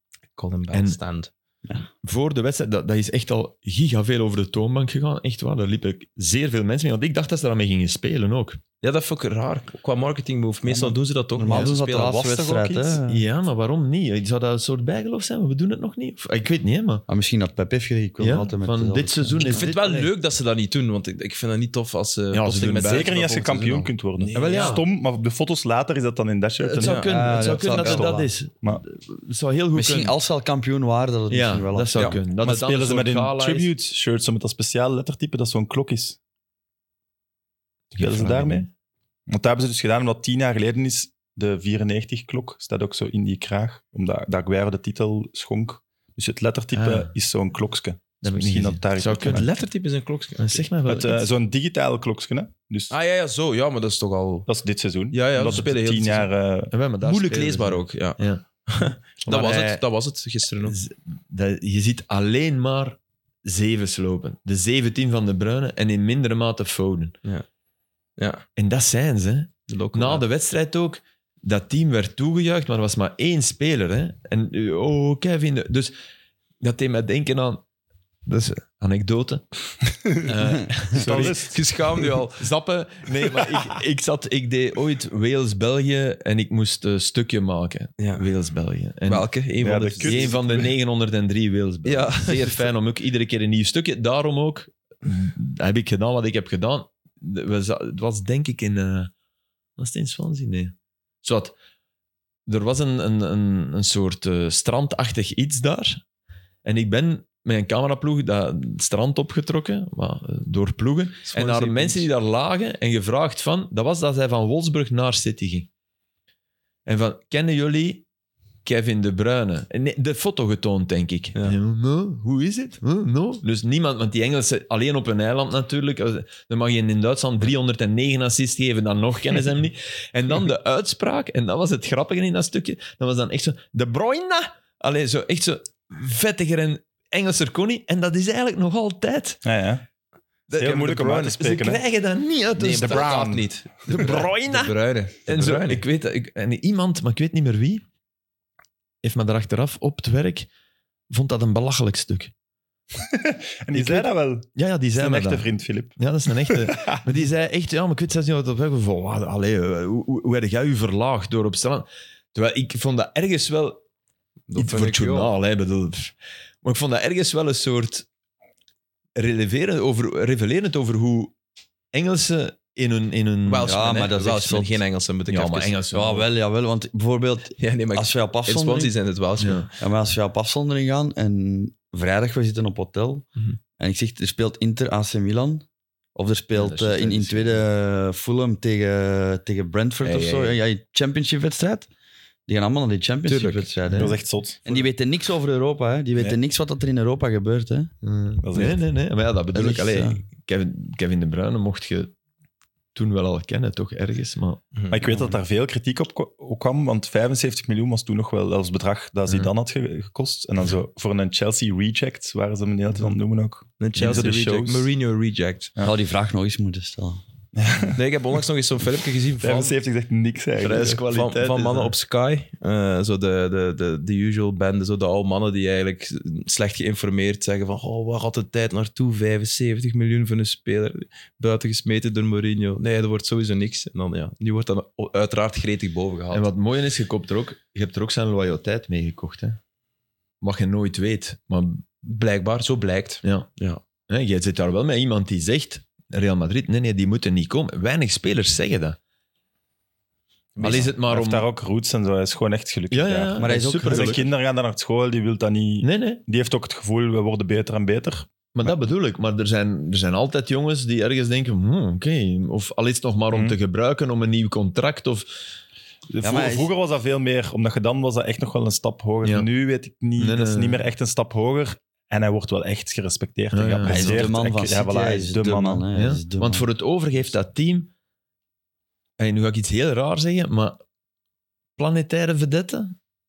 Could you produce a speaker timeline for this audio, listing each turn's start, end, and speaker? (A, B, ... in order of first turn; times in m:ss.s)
0:00.4-0:01.3 A
0:00.7-0:01.0 B
0:02.0-0:08.6 B
0:08.8-0:12.2 A
0:10.6-0:11.0 C
0:11.4-0:13.2 D
0:11.9-0:13.0 C
0:13.1-0:17.0 B
0:17.1-0:19.8 D
0:18.2-0:20.1 B
0:19.4-0:24.8 A
0:22.3-0:23.2 B
0:22.8-0:28.8 C
0:24.3-0:24.8 B
0:26.6-0:30.2 B
0:26.8-0:27.1 A
0:27.1-0:28.3 D
0:29.7-0:32.2 D
0:31.3-0:33.7 B
0:32.4-0:36.2 C
0:37.9-0:38.7 C
0:38.0-0:38.7 B
0:39.3-0:49.5 C
0:46.7-0:47.1 B
0:48.2-0:49.5 B
0:49.2-0:50.6 A
0:50.4-0:51.3 B
0:50.9-0:52.9 C
0:52.9-0:54.5 A
0:54.5-0:56.7 C
0:55.1-0:56.3 A
0:56.7-0:58.4 B
0:57.0-1:00.8 A
0:59.2-0:59.8 B
1:00.6-1:07.2 B
1:08.2-1:08.4 A
1:08.6-1:15.9 B
1:09.7-1:10.2 A
1:16.6-1:17.6 B
1:18.3-1:19.5 B
1:20.2-1:21.6 B
1:20.9-1:21.6 C
1:20.9-1:22.5 A
1:22.3-1:29.3 B
1:28.0-1:28.3 A
1:29.1-1:30.7 A
1:29.6-1:30.7 C
1:30.0-1:39.1 B
1:31.9-1:32.7 A
1:39.8-1:41.6 B
1:42.5-1:46.0 B
1:46.6-1:55.7 B
1:51.3-1:52.1 A
1:56.9-1:58.0 B
1:58.6-2:19.4 B
2:19.4-2:19.8 C
2:20.5-2:27.8 B
2:20.5-2:21.8 C
2:22.6-2:25.8 A
2:22.8-2:23.4 C
2:29.0-2:30.5 B
2:31.1-2:32.3 B
2:33.0-2:37.1 C
2:33.7-2:43.8 B
2:44.5-2:45.3 A
2:44.6-2:48.1 B
2:49.2-2:51.3 B
2:51.9-2:53.8 B
2:53.5-2:55.8 A
2:53.6-2:54.8 D
2:55.3-2:56.3 B
2:55.9-2:58.9 D
2:57.6-2:59.7 A
2:59.4-2:59.7 B
2:59.8-3:03.2 D
3:03.8-3:11.9 D
3:06.5-3:07.6 B
3:10.0-3:10.5 B
3:12.5-3:17.9 D
3:13.3-3:13.7 A
3:14.0-3:14.9 C
3:18.0-3:22.1 B
3:18.4-3:18.8 C
3:19.5-3:20.2 D
3:23.0-3:24.6 B
3:24.8-3:25.0 A
3:24.9-3:34.9 C
3:33.8-3:35.7 A
3:35.8-3:37.2 D
3:37.6-3:38.0 C
3:37.9-3:39.7 A
3:39.4-3:41.0 C
3:40.6-3:42.0 B
3:41.0-3:56.5 A
3:56.3-3:59.6 B
4:00.4-4:01.8 B
4:02.0-4:03.8 A
4:03.2-4:03.5 B
4:04.1-4:09.0 B
4:10.6-4:10.9 A
4:10.6-4:11.5 B
4:10.6-4:18.7 C
4:12.9-4:14.3 B
4:13.4-4:14.2 D
4:15.8-4:16.2 B
4:18.5-4:25.3 B
4:23.3-4:23.6 C
4:26.2-4:35.8 C
4:26.2-4:26.7 D
4:30.2-4:30.8 B
4:33.5-4:34.3 B
4:33.8-4:36.7 D
4:36.0-4:37.9 B
4:39.2-4:40.8 B
4:41.8-4:43.0 B